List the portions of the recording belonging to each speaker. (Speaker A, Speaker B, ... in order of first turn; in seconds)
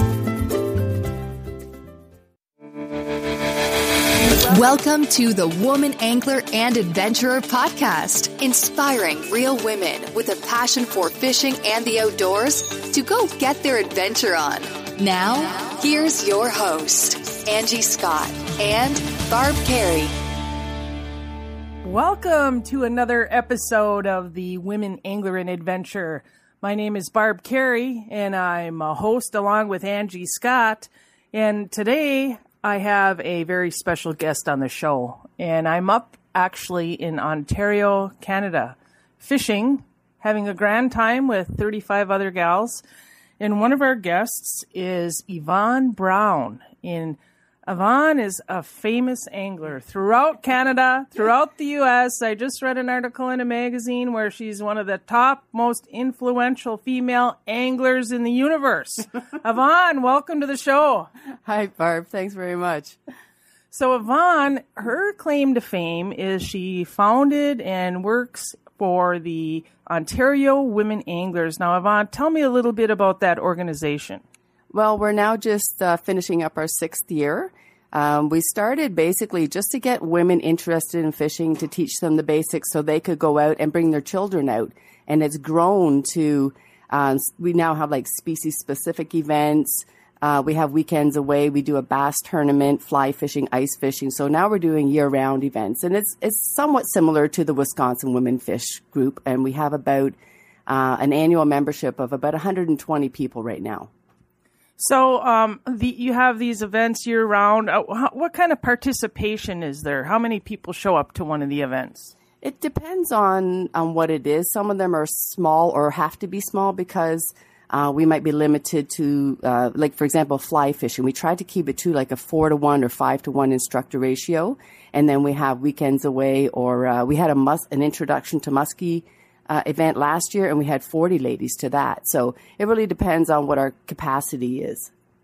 Speaker A: 4.2-20.1
Speaker B: 21.8-42.8, 43.4-61.1, 63.7-74.2, 104.8-112.1
Speaker C: 61.5-63.0, 74.7-100.2, 100.7-103.9, 112.4-134.9